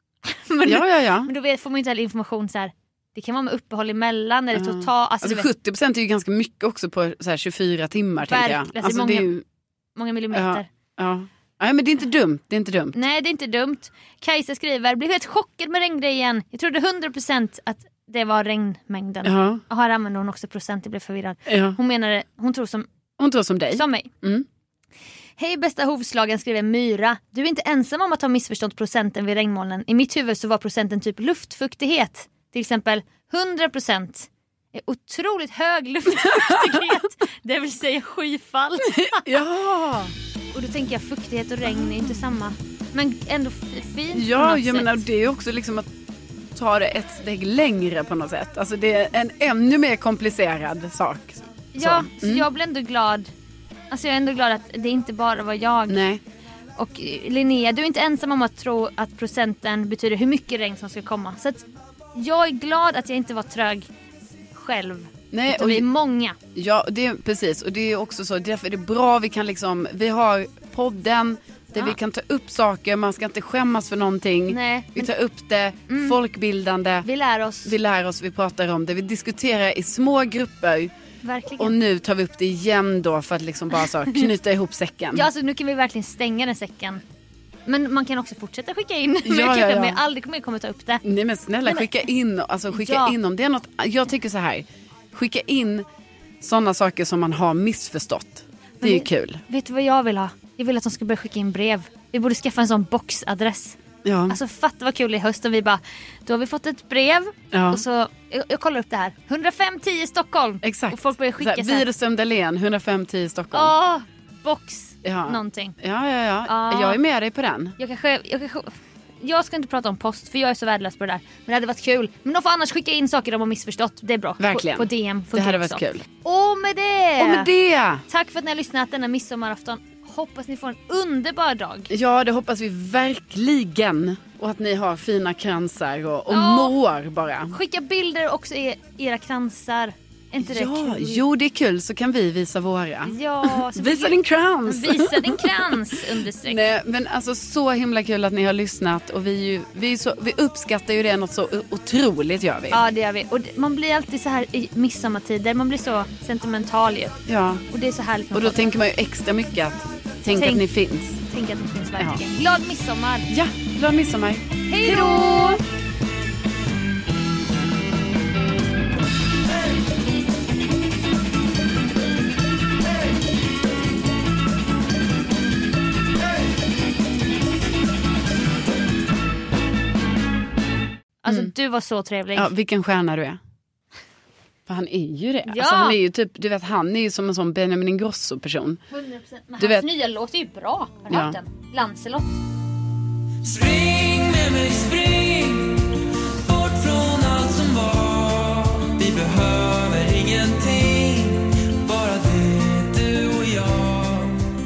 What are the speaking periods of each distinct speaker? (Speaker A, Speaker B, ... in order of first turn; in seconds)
Speaker A: 0.2-5.5, 8.2-9.3, 9.9-10.7, 12.9-22.9, 23.7-24.1, 25.4-39.4, 40.5-45.0, 51.7-53.3, 53.9-56.0, 56.8-63.9, 64.5-66.4, 74.5-75.1, 75.9-76.2, 77.0-77.7, 81.2-81.8, 85.1-87.0, 87.7-91.0, 91.7-92.0, 92.7-93.1, 98.8-111.9, 113.5-115.8, 116.5-117.0, 117.8-127.5, 128.1-131.9, 136.3-136.8, 137.5-141.2, 143.0-146.6, 152.7-157.2, 157.7-158.7, 160.3-160.6, 161.3-163.3, 164.7-165.6, 181.2-182.5, 185.5-186.0, 188.9-192.3
Speaker B: 0.6-1.3, 4.5-9.4, 10.3-12.9, 19.2-19.6, 21.5-21.8, 23.2-24.4, 36.2-36.8, 38.9-40.1, 44.1-45.9, 46.5-52.5, 55.9-56.2, 65.3-65.9, 66.5-77.1, 77.6-80.9, 81.6-85.3, 89.2-90.0, 91.0-95.8, 96.4-99.4, 104.0-104.4, 107.5-107.8, 110.6-113.7, 115.0-117.8, 124.4-126.0, 127.2-128.0, 131.9-137.6, 140.4-152.8, 157.3-157.6, 158.3-161.2, 163.3-165.6, 182.3-183.4, 184.7-188.8, 189.6-189.9, 191.1-191.4
Speaker C: 193.4-204.4